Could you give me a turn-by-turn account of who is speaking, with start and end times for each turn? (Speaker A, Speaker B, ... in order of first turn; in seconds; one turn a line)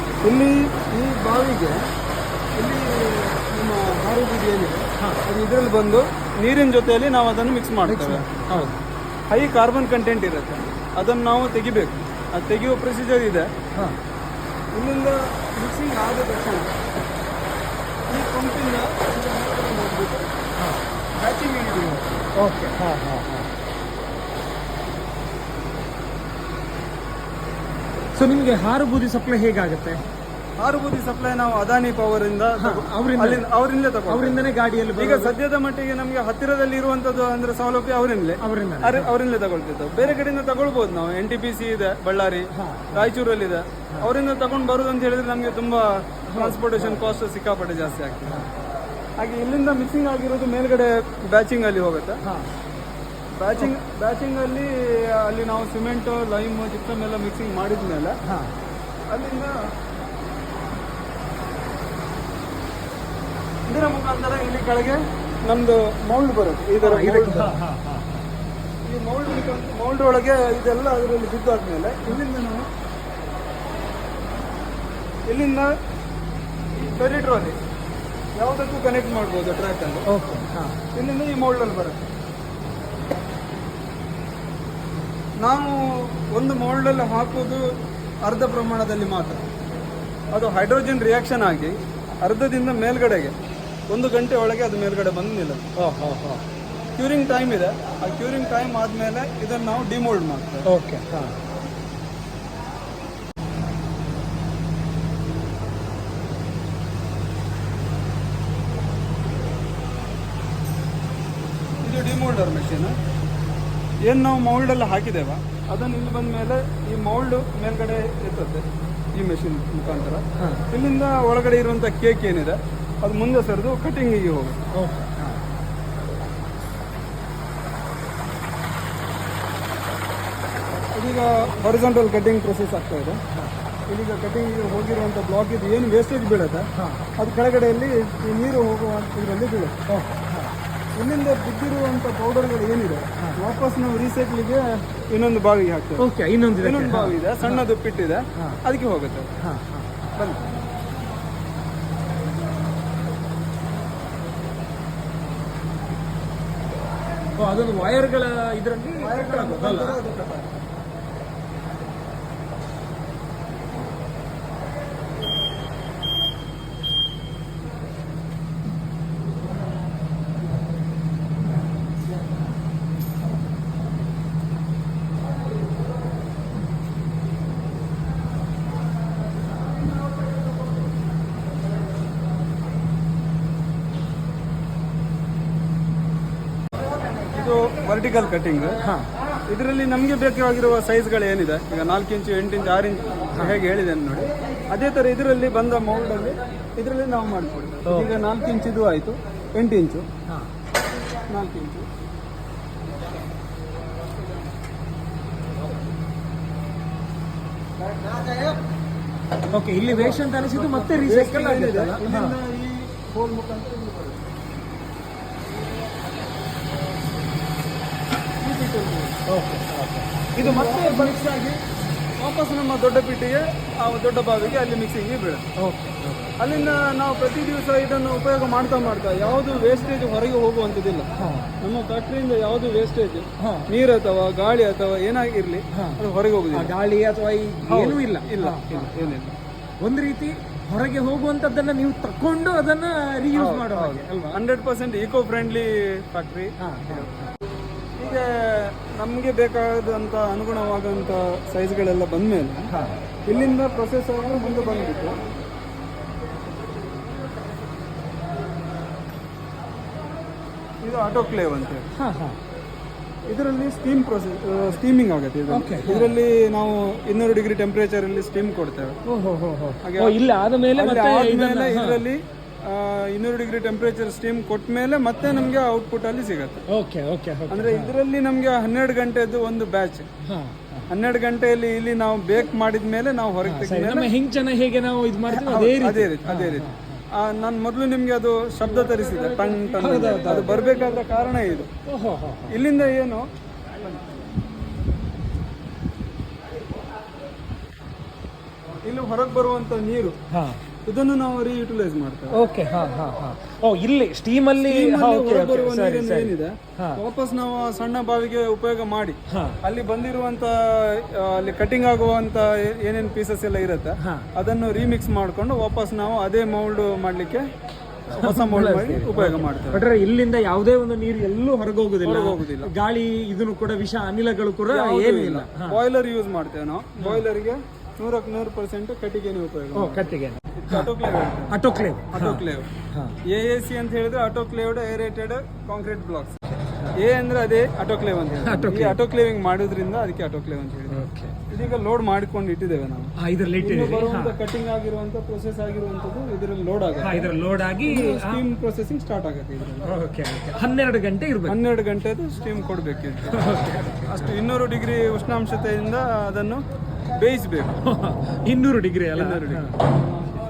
Speaker A: 0.2-1.8
Speaker A: 2.6-8.7
Speaker B: 7.8-8.8
Speaker A: 9.3-13.5
Speaker A: 14.8-16.7
Speaker A: 18.1-20.3
Speaker A: 21.2-22.2
Speaker B: 22.4-23.5
Speaker B: 28.1-30.0
Speaker A: 30.6-48.5
Speaker B: 32.6-33.4
Speaker B: 34.1-35.3
Speaker B: 38.4-39.1
Speaker B: 42.5-43.1
Speaker B: 46.3-47.2
Speaker A: 49.2-52.2
Speaker B: 52.2-52.5
Speaker A: 53.3-58.2
Speaker B: 58.2-58.5
Speaker A: 59.1-59.5
Speaker A: 63.7-67.5
Speaker B: 66.8-68.3
Speaker A: 68.8-72.7
Speaker A: 75.3-75.7
Speaker A: 76.8-77.5
Speaker A: 78.4-80.1
Speaker B: 80.1-80.8
Speaker A: 80.9-82.0
Speaker A: 85.4-87.6
Speaker A: 88.2-89.5
Speaker A: 90.3-93.3
Speaker A: 93.9-95.7
Speaker B: 95.8-96.4
Speaker A: 97.0-100.7
Speaker B: 100.7-101.4
Speaker A: 111.8-112.9
Speaker A: 114.0-118.6
Speaker A: 119.1-124.6
Speaker B: 124.7-125.4
Speaker A: 130.9-133.2
Speaker A: 133.9-139.7
Speaker B: 136.8-137.0
Speaker B: 139.9-140.5
Speaker A: 141.0-146.1
Speaker B: 146.0-147.7
Speaker A: 146.6-149.3
Speaker B: 149.4-149.9
Speaker A: 150.2-150.5
Speaker B: 157.4-160.0
Speaker A: 159.0-160.5
Speaker A: 187.3-188.8
Speaker B: 188.8-189.1
Speaker A: 189.5-200.1
Speaker B: 193.3-193.6
Speaker B: 197.8-198.1
Speaker A: 201.3-201.9
Speaker B: 209.5-212.3
Speaker A: 209.9-214.2
Speaker A: 218.4-219.2
Speaker B: 219.3-221.2
Speaker A: 220.4-221.6
Speaker A: 222.2-225.4
Speaker B: 225.6-226.3
Speaker A: 226.4-231.1
Speaker B: 231.2-231.5
Speaker A: 231.6-236.7
Speaker B: 233.4-233.7
Speaker B: 235.7-236.0
Speaker B: 236.5-239.2
Speaker A: 237.7-239.4
Speaker B: 239.8-244.3
Speaker A: 243.3-247.1
Speaker B: 246.6-247.2
Speaker A: 248.0-252.7
Speaker B: 252.7-253.0
Speaker A: 253.2-255.2
Speaker A: 260.8-261.9
Speaker B: 261.9-262.4
Speaker A: 263.3-269.0
Speaker B: 265.5-266.1
Speaker B: 269.1-272.0
Speaker A: 269.8-270.2
Speaker A: 270.7-276.6
Speaker B: 276.7-277.9
Speaker A: 277.5-280.1
Speaker B: 280.2-280.9
Speaker A: 280.9-284.1
Speaker B: 283.4-287.0
Speaker A: 285.3-291.7
Speaker B: 288.6-291.1
Speaker B: 291.8-292.6
Speaker A: 292.5-293.2
Speaker A: 298.8-300.2
Speaker B: 300.3-300.6
Speaker A: 300.8-302.4
Speaker B: 302.3-307.0
Speaker A: 304.6-317.4
Speaker B: 309.3-309.6
Speaker B: 314.0-314.3
Speaker A: 318.1-319.9
Speaker B: 318.1-325.8
Speaker A: 322.0-322.7
Speaker A: 324.7-330.1
Speaker B: 327.0-327.2
Speaker B: 329.7-330.9
Speaker A: 330.6-331.6
Speaker B: 331.5-333.2
Speaker A: 332.1-332.7
Speaker A: 333.2-336.3
Speaker B: 336.6-336.9
Speaker A: 336.9-347.3
Speaker B: 338.4-339.0
Speaker B: 340.9-341.4
Speaker B: 343.2-344.4
Speaker B: 347.0-348.4
Speaker A: 347.9-349.9
Speaker B: 349.8-351.6
Speaker A: 351.5-353.5
Speaker B: 353.3-354.4
Speaker A: 354.1-356.6
Speaker A: 357.1-357.8
Speaker B: 357.8-359.8
Speaker A: 359.1-359.8